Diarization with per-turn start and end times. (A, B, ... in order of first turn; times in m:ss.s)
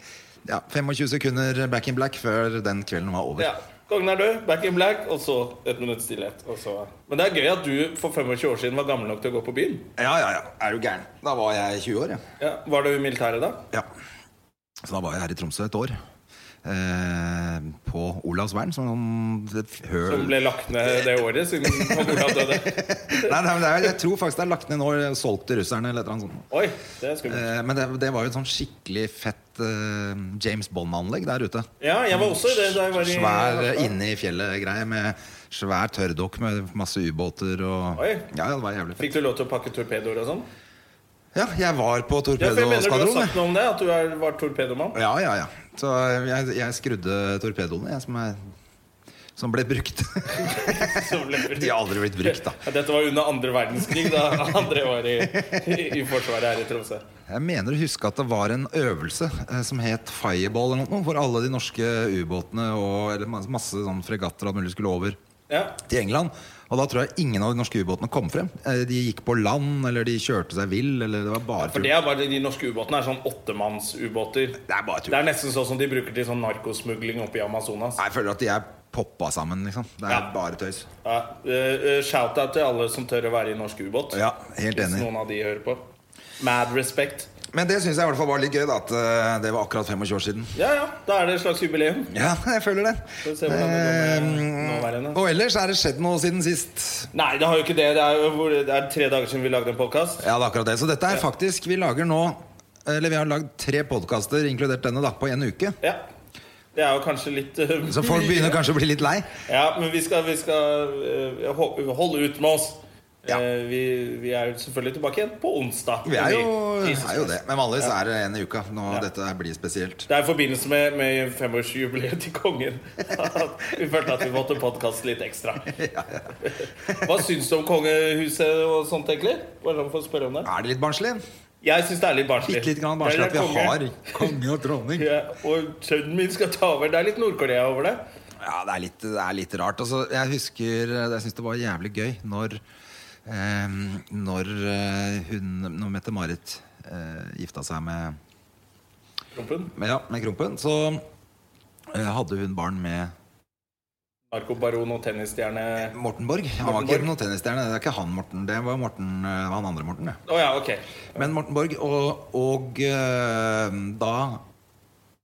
0:00.4-0:03.5 A
0:03.4-0:09.9 B
0:10.0-0:12.2 A
0:12.4-0:13.6 B
0:14.8-0:15.9 A
0:16.6-0:21.1 A
0:20.0-0:23.9 B
0:21.6-0:26.4 A
0:26.5-0:27.5 B
0:27.2-0:39.1 A
0:31.8-0:33.9 B
0:38.0-0:38.3 B
0:39.0-0:40.5 B
0:41.3-0:43.4 A
0:42.4-0:45.0 B
0:44.9-0:48.4 A
0:49.4-0:52.6 A
0:50.4-0:57.0 B
0:53.8-0:54.4 A
0:55.2-0:55.8 A
0:57.3-1:05.2 A
1:05.5-1:05.8 B
1:05.8-1:11.9 A
1:11.6-1:18.0 B
1:14.6-1:15.2 A
1:18.0-1:20.9 A
1:21.0-1:24.2 B
1:24.1-1:25.1 A
1:24.7-1:25.8 B
1:26.4-1:27.3 B
1:27.5-1:30.5 A
1:30.5-1:32.2 B
1:32.1-1:37.1 A
1:33.2-1:35.2 B
1:37.1-1:40.3 B
1:40.2-1:45.8 A
1:46.7-1:48.6 B
1:47.8-1:49.3 A
1:49.4-1:57.9 B
1:56.0-2:00.1 A
2:00.1-2:05.8 B
2:05.7-2:06.3 A
2:06.4-2:10.5 B
2:06.8-2:07.2 A
2:10.4-2:11.2 A
2:11.6-2:14.3 B
2:12.4-2:15.1 A
2:14.9-2:18.0 B
2:18.4-2:22.6 A
2:23.2-2:28.2 A
2:29.3-2:29.7 B
2:29.7-2:31.0 A
2:31.9-2:33.1 A
2:34.3-2:36.0 B
2:35.8-2:40.2 A
2:36.6-2:37.1 B
2:40.3-2:41.2 B
2:41.1-2:44.4 A